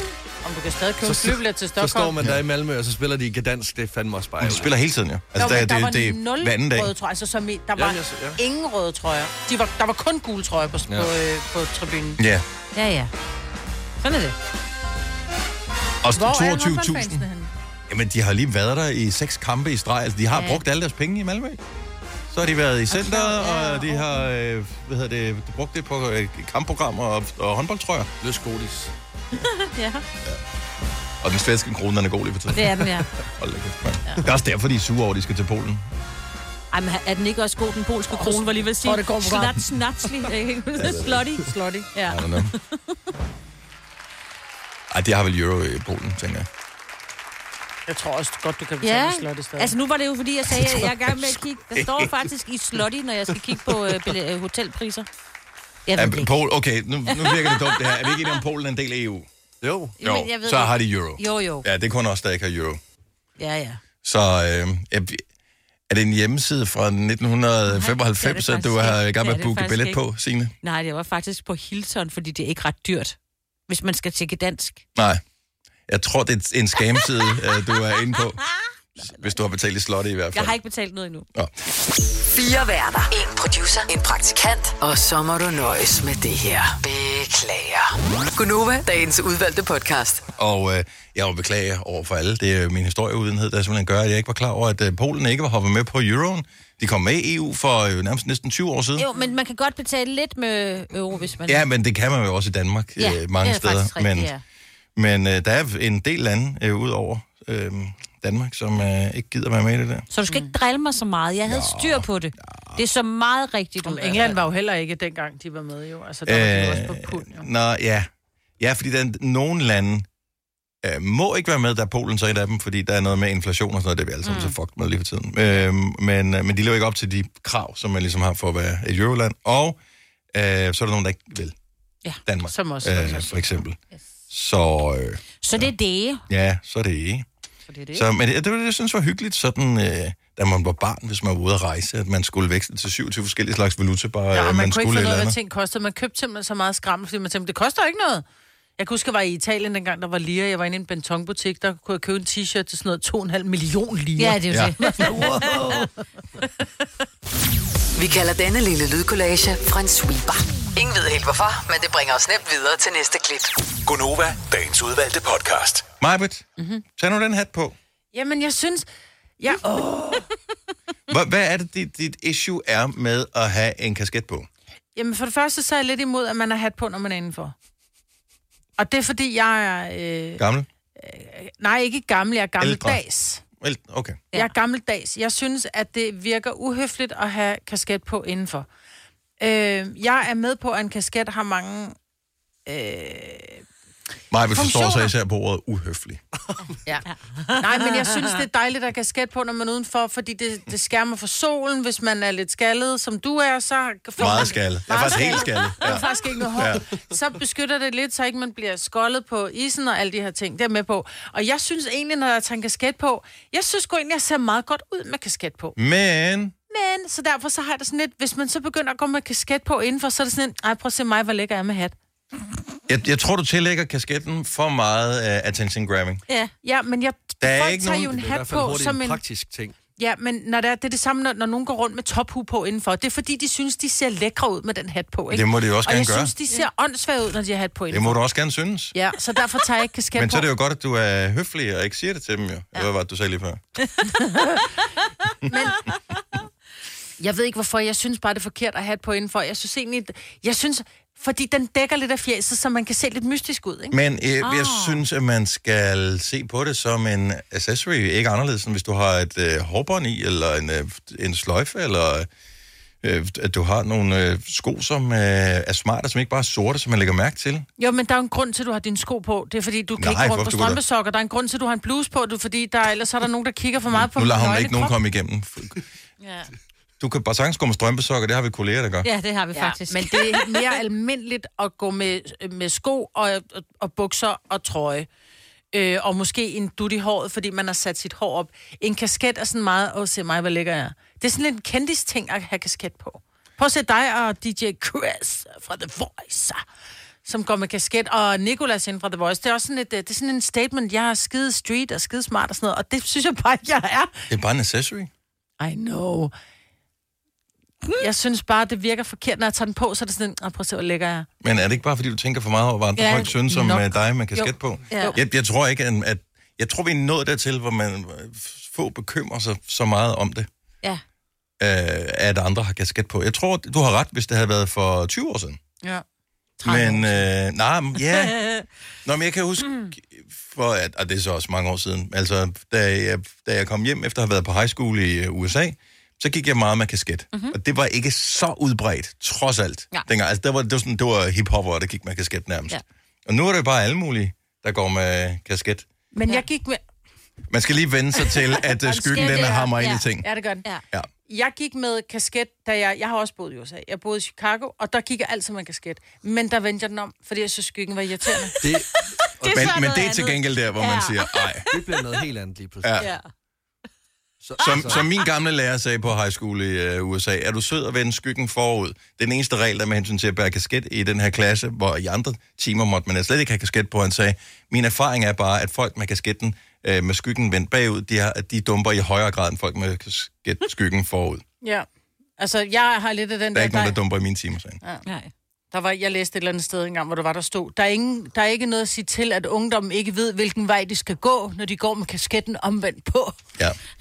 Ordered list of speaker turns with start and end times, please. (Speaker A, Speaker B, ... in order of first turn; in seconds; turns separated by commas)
Speaker A: 0.4-2.1, Speaker B: 1.0-4.7, Speaker C: 4.4-6.9, Speaker A: 5.4-12.2, Speaker B: 7.8-8.4, Speaker C: 12.2-12.4, Speaker D: 12.8-13.1, Speaker D: 14.0-14.3, Speaker C: 16.0-17.3, Speaker A: 16.2-17.5, Speaker C: 17.9-21.6, Speaker D: 20.3-20.6, Speaker C: 22.3-28.1, Speaker D: 22.9-24.3, Speaker B: 28.2-28.9, Speaker D: 29.4-30.0, Speaker C: 31.2-35.9, Speaker D: 32.5-33.1, Speaker D: 36.7-42.6, Speaker A: 38.1-39.6, Speaker C: 40.8-41.2, Speaker A: 41.4-41.9, Speaker C: 42.1-42.5, Speaker C: 44.9-46.5, Speaker A: 47.9-49.7, Speaker D: 48.8-55.1, Speaker C: 50.5-52.3, Speaker D: 55.9-56.3, Speaker C: 56.0-59.3, Speaker D: 57.1-58.4, Speaker B: 59.6-60.0, Speaker D: 60.0-61.7, Speaker C: 60.0-62.8, Speaker D: 63.4-63.8, Speaker C: 64.0-65.2, Speaker C: 65.9-70.5, Speaker D: 67.7-70.0, Speaker D: 70.6-73.2, Speaker D: 73.7-74.8, Speaker C: 75.0-75.2, Speaker C: 75.9-78.4, Speaker D: 79.0-79.3, Speaker C: 79.0-80.6, Speaker D: 80.3-81.3, Speaker C: 81.3-81.7, Speaker E: 82.3-90.2, Speaker C: 90.4-99.1, Speaker D: 99.0-101.7, Speaker C: 101.5-104.3, Speaker D: 103.0-104.4, Speaker C: 105.0-110.1, Speaker D: 110.1-114.4, Speaker A: 110.3-110.5, Speaker C: 111.5-112.8, Speaker A: 113.8-117.5, Speaker C: 116.3-118.1, Speaker C: 118.6-120.1, Speaker C: 120.8-129.8, Speaker D: 124.2-124.6, Speaker C: 130.3-131.5, Speaker C: 132.3-133.8, Speaker A: 132.5-133.5, Speaker C: 134.3-135.7, Speaker D: 135.4-136.2, Speaker C: 136.3-137.3, Speaker D: 137.7-138.0, Speaker C: 137.9-145.3, Speaker A: 144.3-148.2, Speaker A: 148.8-155.8, Speaker D: 154.2-155.9, Speaker C: 154.5-154.7, Speaker E: 158.0-163.5, Speaker F: 163.9-165.9, Speaker C: 166.0-167.8, Speaker A: 168.1-168.9, Speaker A: 169.4-170.3, Speaker C: 171.1-174.5, Speaker A: 175.0-177.6, Speaker A: 178.8-180.4, Speaker C: 180.4-180.7, Speaker A: 181.0-183.4, Speaker C: 182.6-183.0, Speaker C: 183.6-184.3, Speaker A: 184.3-188.7, Speaker A: 189.4-192.0, Speaker A: 192.7-193.7, Speaker C: 194.3-196.2, Speaker A: 194.6-195.1, Speaker D: 197.4-198.4, Speaker A: 197.6-215.8, Speaker C: 204.2-206.8, Speaker C: 215.8-216.5, Speaker A: 216.7-221.9, Speaker C: 222.9-226.2, Speaker A: 226.6-229.2, Speaker C: 227.4-228.2, Speaker B: 228.1-229.8, Speaker A: 230.0-238.2, Speaker C: 235.3-236.3, Speaker C: 237.9-238.9, Speaker A: 238.9-240.5, Speaker C: 240.2-243.6, Speaker D: 244.0-244.6, Speaker A: 245.5-245.8, Speaker A: 247.2-254.0, Speaker C: 253.9-262.3, Speaker D: 254.4-255.0, Speaker C: 263.0-267.7, Speaker A: 267.8-275.0, Speaker C: 270.0-270.8, Speaker C: 273.9-275.8, Speaker A: 276.2-276.5, Speaker C: 277.0-279.1, Speaker D: 279.0-280.6, Speaker A: 279.6-285.1, Speaker A: 285.7-296.6, Speaker A: 297.2-304.1, Speaker C: 304.3-305.1, Speaker A: 305.6-306.3, Speaker A: 308.0-311.3, Speaker C: 311.4-320.5, Speaker D: 313.0-313.4, Speaker A: 313.5-315.2, Speaker D: 314.9-315.2, Speaker C: 321.6-325.6, Speaker A: 326.6-327.2, Speaker C: 326.6-328.4, Speaker D: 328.0-328.6, Speaker C: 329.1-345.9, Speaker D: 329.6-329.9, Speaker A: 346.1-346.8, Speaker C: 347.5-350.3, Speaker A: 348.5-349.7, Speaker D: 349.0-350.1, Speaker A: 350.2-350.6, Speaker A: 351.3-358.6, Speaker B: 358.6-359.7, Speaker D: 359.4-362.2, Speaker C: 359.5-361.7, Speaker B: 361.7-363.1, Speaker C: 362.8-363.1, Speaker B: 364.4-365.1, Speaker C: 364.6-381.4, Speaker A: 381.6-381.9, Speaker A: 382.4-384.0, Speaker C: 383.5-384.8, Speaker D: 385.1-385.3, Speaker A: 385.7-393.4